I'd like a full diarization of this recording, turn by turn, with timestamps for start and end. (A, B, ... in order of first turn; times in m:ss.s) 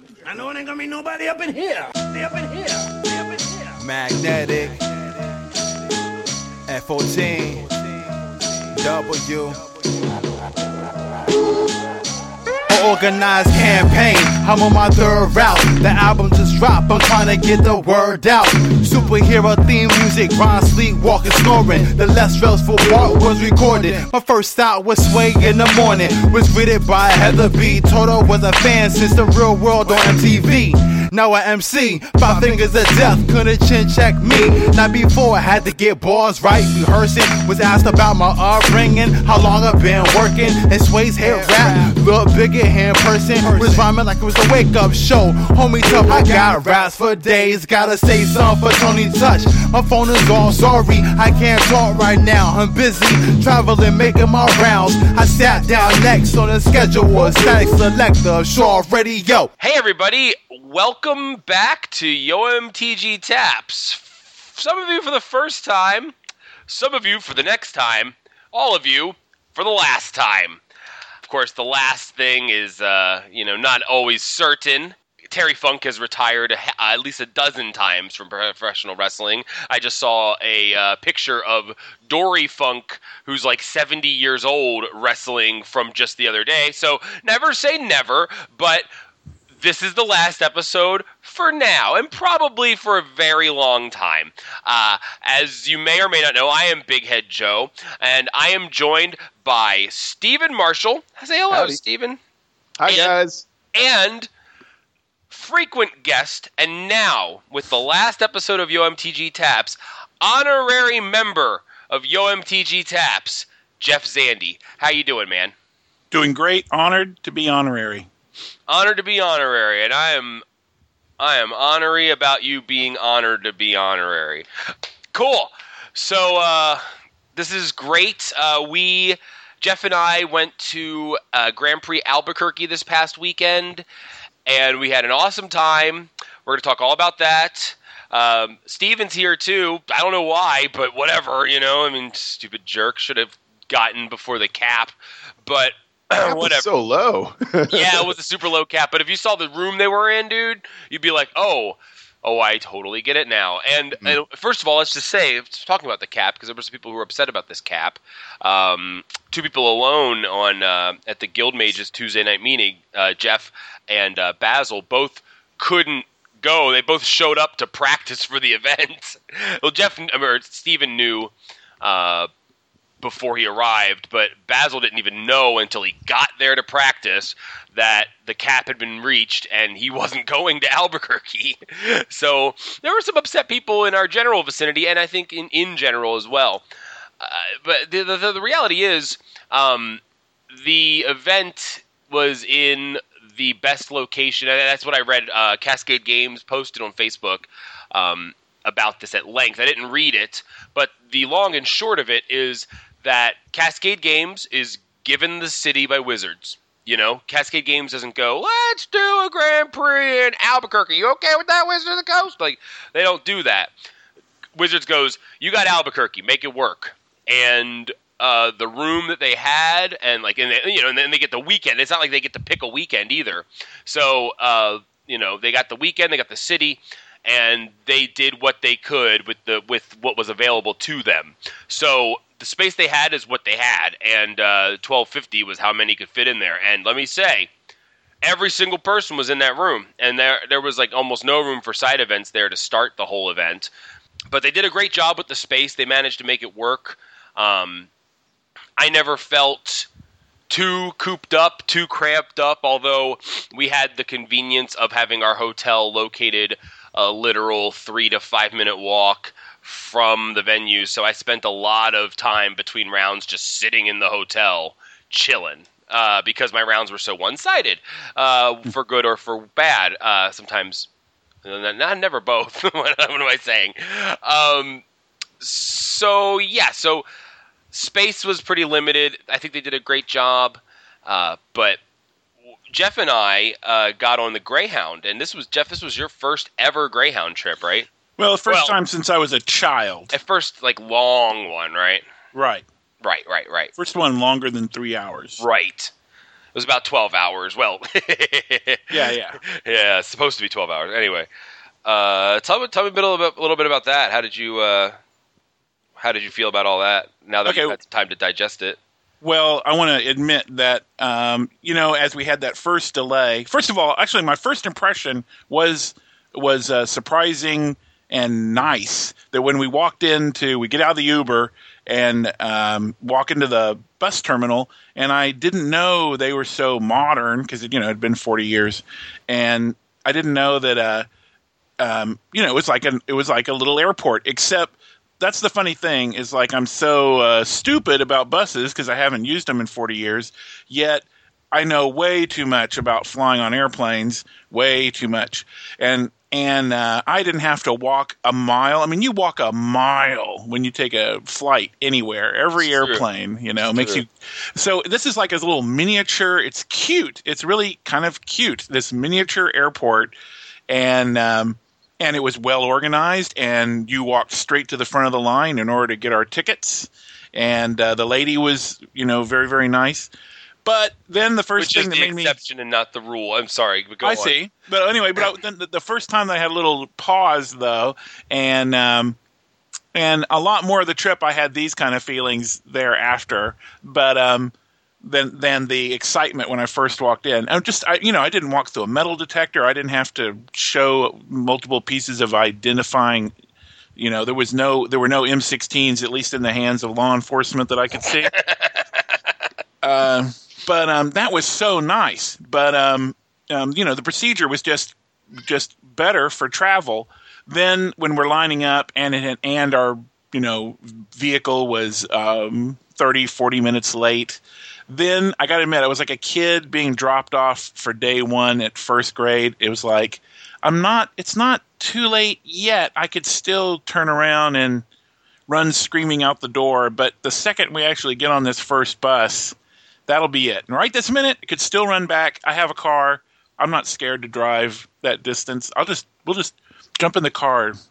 0:00.2-0:03.8 A
0:03.8-0:04.7 B
0:06.7-0:07.6 B
0:08.7-0:09.6 B
0:12.7-0:59.5 B
0:59.6-1:06.1 C
1:06.7-1:10.6 C
1:11.2-1:28.9 C
1:29.6-1:42.2 C
1:41.5-1:41.8 D
1:42.8-1:43.4 D
1:42.8-1:43.1 C
1:43.7-1:44.3 C
1:45.3-1:55.5 C
1:56.1-1:58.1 E
1:58.7-2:00.4 C
2:01.2-2:04.4 C
2:05.1-2:06.8 C
2:07.3-2:13.8 C
2:14.4-2:24.9 C
2:25.4-2:26.7 C
2:26.2-2:28.1 D
2:27.7-2:52.3 C
2:53.0-3:06.6 C
3:07.2-3:33.7 C
3:34.5-3:57.5 C
3:58.2-4:03.7 C
4:04.3-4:07.9 C
4:08.8-4:09.9 C
4:10.5-4:30.9 C
4:31.4-4:34.8 C
4:35.4-4:37.0 C
4:37.7-4:41.8 C
4:42.7-4:47.9 C
4:48.2-4:50.1 E
4:48.4-4:48.7 C
4:50.1-4:52.0 C
4:52.3-4:52.6 E
4:53.0-4:53.7 C
4:53.8-4:55.4 E
4:55.4-4:55.9 C
4:56.5-5:01.3 C
4:58.9-4:59.4 E
5:01.8-5:05.0 C
5:06.0-5:08.8 C
5:07.4-5:07.8 E
5:09.2-5:31.1 E
5:31.8-6:00.1 E
5:52.8-5:53.0 C
5:53.7-5:54.0 C
6:00.7-6:10.1 E
6:10.6-6:12.4 E
6:11.6-6:14.3 C
6:14.0-6:19.2 E
6:19.9-6:33.3 E
6:34.0-6:38.3 E
6:38.2-6:39.1 C
6:39.8-7:04.8 E
7:05.5-7:09.6 E
7:10.1-7:17.8 E